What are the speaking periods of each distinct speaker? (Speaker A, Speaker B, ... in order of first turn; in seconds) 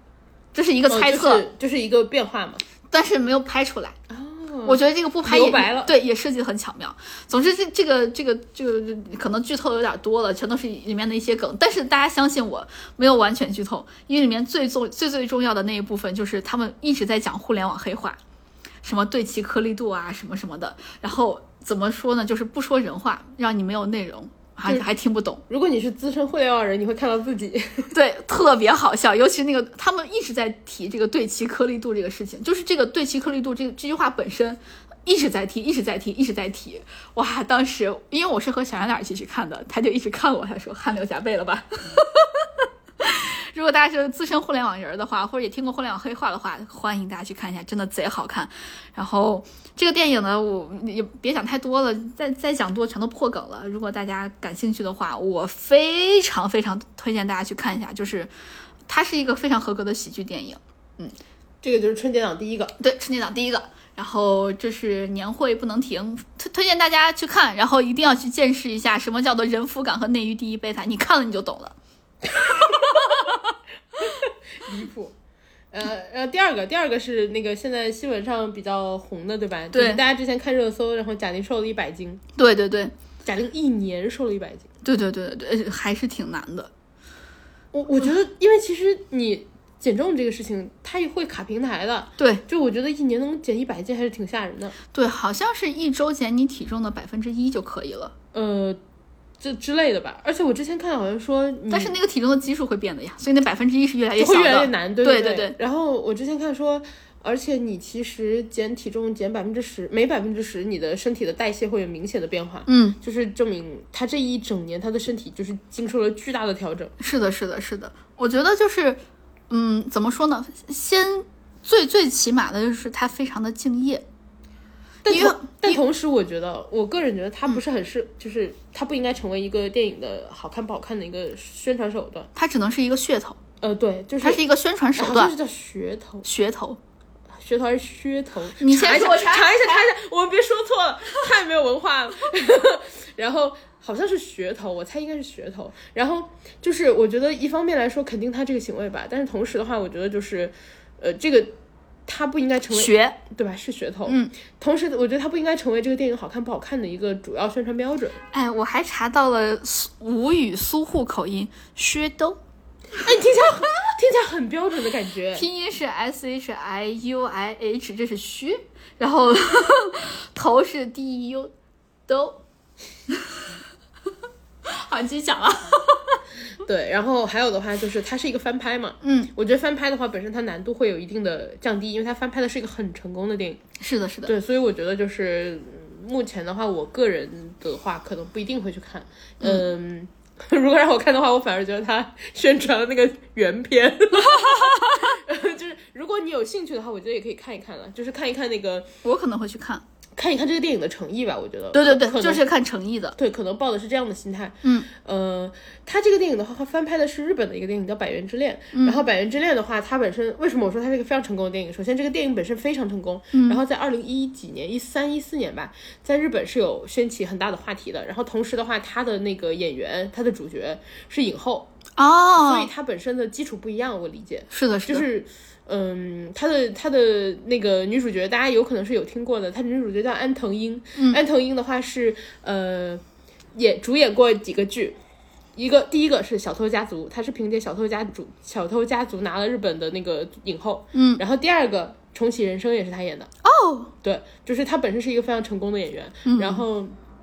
Speaker A: 0.5-1.4, 2.9-4.0, 4.6-18.2, 18.8-25.4, 27.9-58.3, 58.9-61.1, 62.8-71.7, 72.6-73.4, 79.7-80.0, 82.4-82.9, 84.8-86.7, 92.2-92.4, 94.9-98.1, 101.7-105.5, 112.7-113.0, 117.0-124.0, 125.1-125.8, 132.3-133.4, 134.2-135.3, 136.2-136.8, 138.6-139.9, 152.7-153.2, 154.1-154.3, 158.3-162.4, 165.3-171.5, 172.1-172.4, 173.1-173.4, 174.7-176.2, 179.0-179.3, 183.8-184.3, 194.2-195.2, 199.0-199.8, 201.7-203.2, 208.7-209.0, 213.3-213.6, 222.0-222.7, 224.5-225.1, 240.9-241.2, 243.4-243.9, 246.2-246.6
Speaker B: 0.9-2.6, 4.1-5.9, 25.5-27.9, 61.6-62.7, 72.4-73.2, 74.0-75.1, 75.7-82.2, 83.2-84.7, 87.7-94.7, 98.3-98.8, 99.4-101.9, 104.2-116.9, 125.0-132.3, 133.6-134.4, 135.0-136.2, 137.3-151.5, 152.1-158.2, 163.0-165.4, 176.6-183.6, 184.2-198.9, 200.2-202.4, 203.2-221.7, 222.4-233.0, 233.5-235.0, 235.6-243.3, 244.0-246.9